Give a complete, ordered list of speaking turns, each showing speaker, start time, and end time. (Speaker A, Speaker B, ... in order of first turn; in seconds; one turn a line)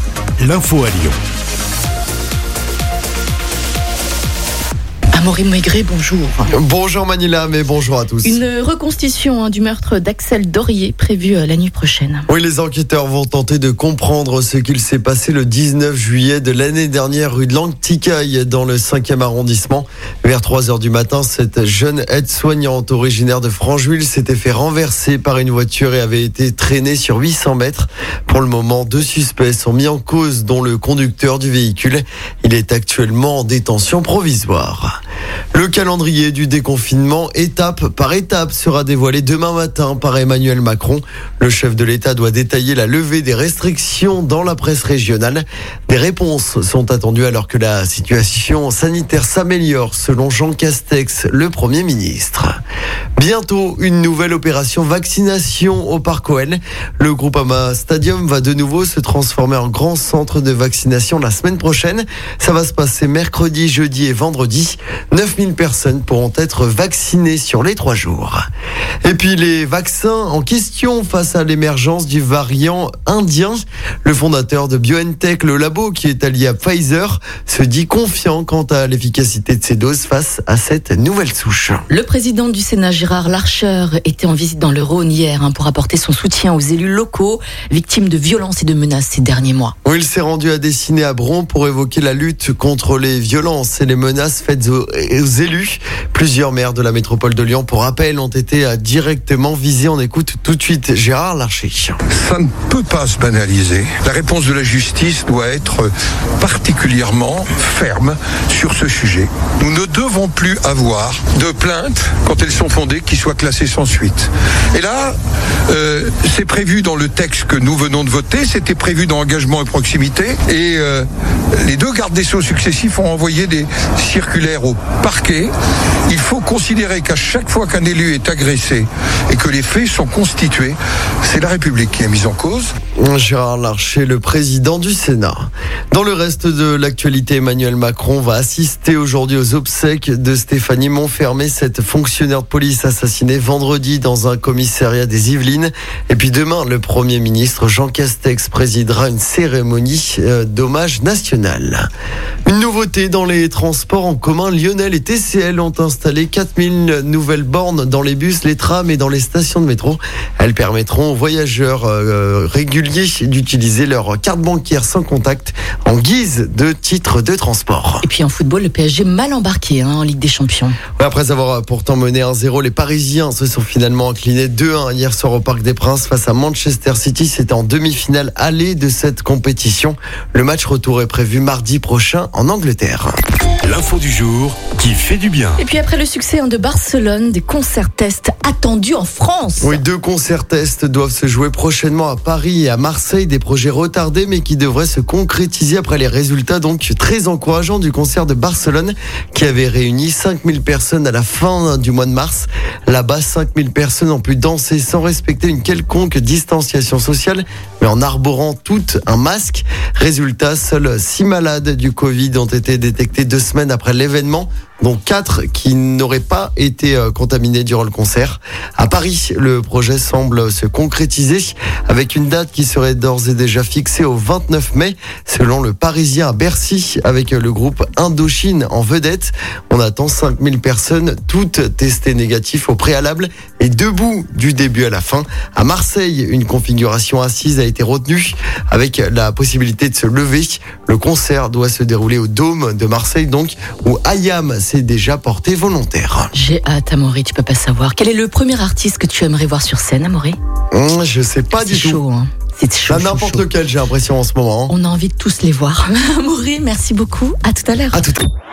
Speaker A: 0.4-1.2
Speaker B: 5.1-6.5
Speaker C: 6.5-8.4
Speaker B: 8.2-12.3
Speaker C: 12.3-35.0
Speaker C: 35.5-52.5
Speaker C: 53.2-68.5
Speaker C: 69.0-81.8
Speaker B: 81.9-89.8
Speaker C: 89.8-102.0
Speaker D: 102.1-115.2
Speaker D: 115.7-125.5
Speaker D: 126.1-132.8
Speaker C: 133.0-151.9
Speaker C: 152.5-168.0
Speaker B: 168.0-170.8
Speaker C: 171.0-183.2
Speaker A: 183.6-185.6
Speaker B: 185.6-189.8
Speaker C: 189.6-246.3
Speaker B: 246.3-250.4
Speaker C: 250.7-252.0
Speaker B: 251.6-253.5
Speaker C: 252.9-254.7
Speaker B: 254.7-258.1
Speaker C: 257.9-258.3